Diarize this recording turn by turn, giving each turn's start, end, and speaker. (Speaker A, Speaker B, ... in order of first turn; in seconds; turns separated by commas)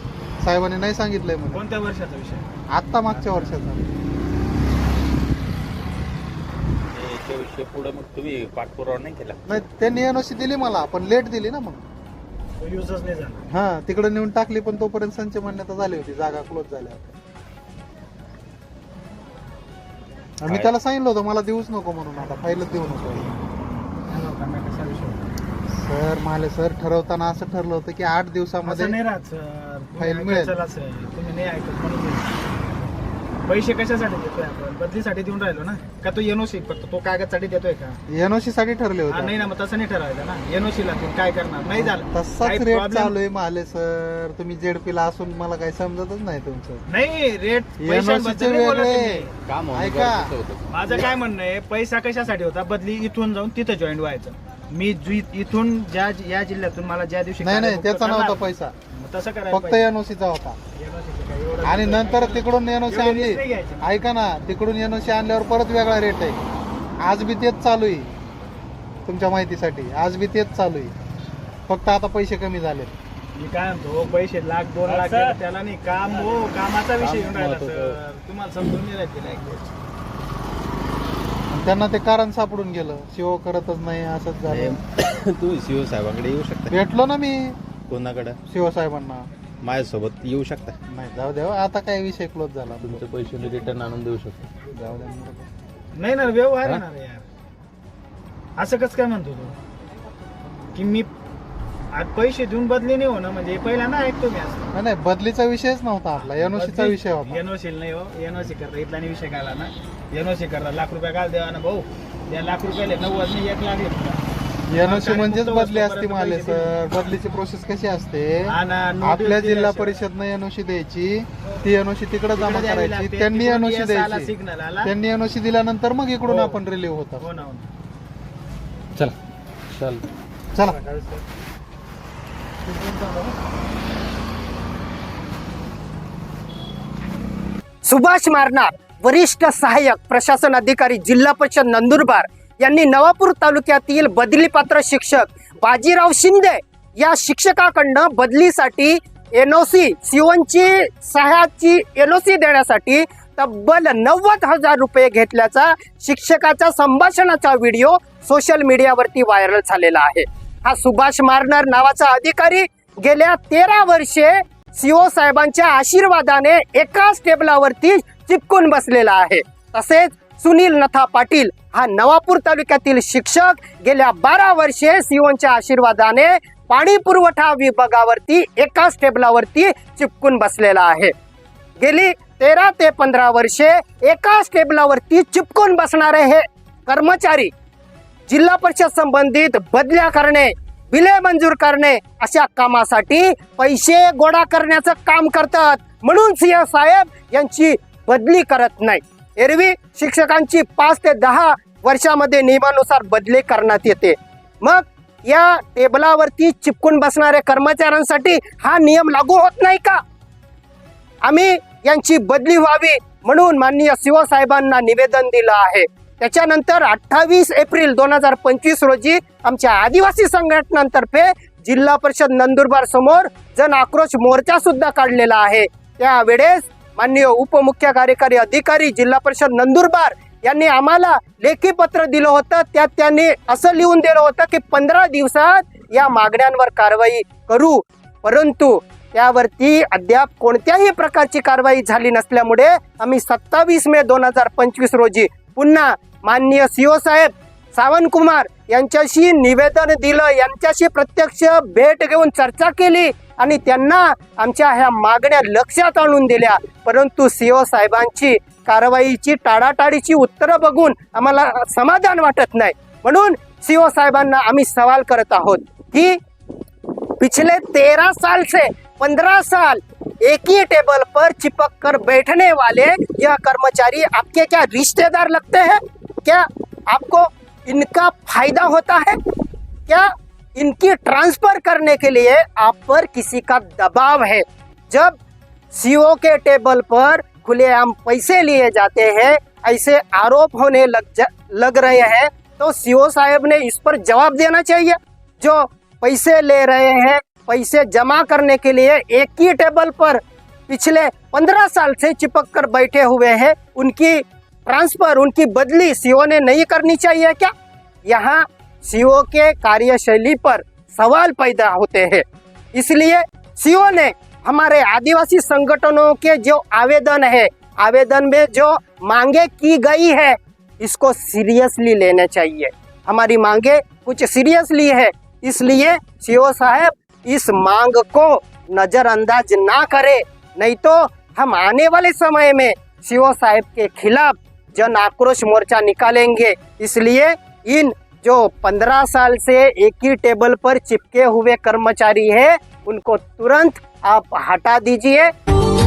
Speaker A: 0.4-1.6, Speaker B: 1.5-2.5, Speaker A: 2.7-3.9, Speaker B: 3.0-3.5, Speaker C: 6.9-9.4, Speaker A: 9.5-11.8, Speaker B: 12.6-13.5, Speaker A: 13.5-17.2, Speaker A: 20.4-23.4, Speaker C: 20.5-20.7, Speaker B: 22.4-23.4, Speaker B: 24.0-25.3, Speaker A: 25.7-29.0, Speaker B: 28.6-38.0, Speaker A: 30.0-30.6, Speaker A: 38.1-39.4, Speaker B: 39.1-43.1, Speaker A: 41.7-46.8, Speaker B: 46.9-49.4, Speaker A: 47.8-50.3, Speaker C: 49.5-51.0, Speaker B: 50.7-58.4, Speaker A: 57.4-58.7, Speaker B: 58.9-59.9, Speaker A: 59.5-60.6, Speaker B: 60.8-63.9, Speaker A: 61.6-66.4, Speaker A: 67.0-68.1, Speaker A: 69.1-70.9, Speaker A: 71.7-73.0, Speaker B: 73.4-79.7, Speaker C: 74.9-75.4, Speaker C: 77.0-78.0, Speaker A: 81.5-84.8, Speaker C: 84.5-86.8, Speaker A: 86.7-87.6, Speaker C: 87.9-88.4, Speaker A: 88.5-89.3, Speaker C: 89.6-90.8, Speaker A: 90.9-93.1, Speaker C: 92.8-94.5, Speaker A: 94.7-95.5, Speaker B: 96.0-97.2, Speaker B: 98.6-99.5, Speaker B: 100.8-101.1, Speaker B: 101.9-104.7, Speaker A: 104.7-107.4, Speaker B: 106.2-114.2, Speaker A: 114.7-127.3, Speaker B: 114.8-116.7, Speaker B: 118.5-120.0, Speaker B: 122.3-124.9, Speaker B: 126.2-126.6, Speaker B: 127.2-127.7, Speaker C: 129.7-130.1, Speaker A: 130.5-130.8, Speaker B: 130.6-131.2, Speaker A: 132.7-133.2, Speaker B: 132.9-133.3, Speaker D: 137.8-181.1, Speaker D: 181.8-187.5, Speaker D: 188.3-210.0, Speaker D: 211.2-266.2, Speaker D: 266.9-285.2, Speaker D: 285.7-307.5, Speaker D: 308.1-345.3